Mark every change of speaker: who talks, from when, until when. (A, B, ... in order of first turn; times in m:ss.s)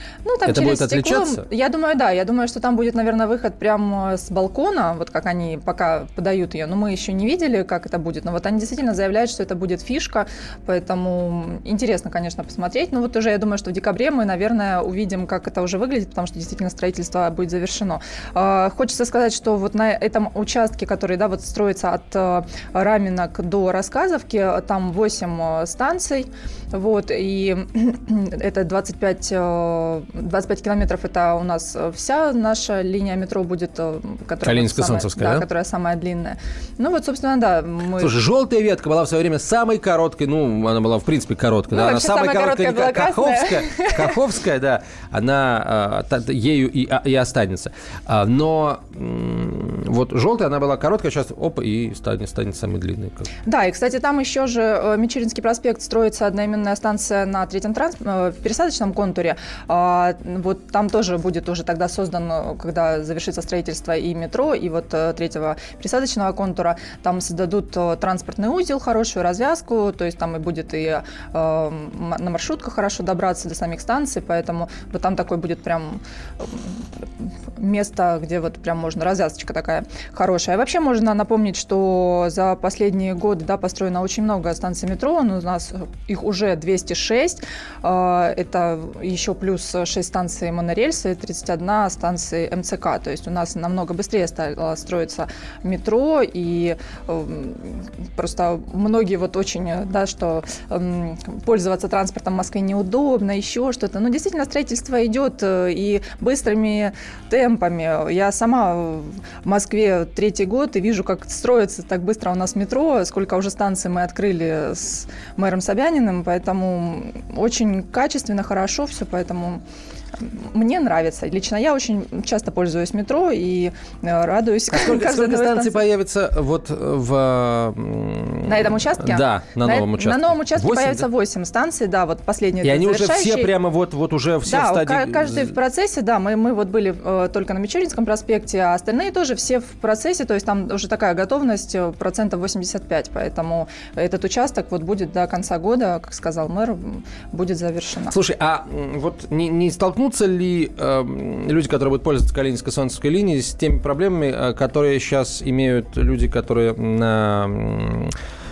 0:00.2-0:38.1 A
0:00.5-0:01.5 B
0:34.4-0:35.5 B
0:38.0-0:53.3 B
0:41.7-0:44.1 A
0:53.5-1:16.7 A
1:17.6-1:59.6 A
2:00.2-2:05.8 A
2:04.7-2:11.1 B
2:08.4-2:13.5 A
2:12.6-2:15.5 B
2:14.5-2:28.2 A
2:28.1-2:38.1 B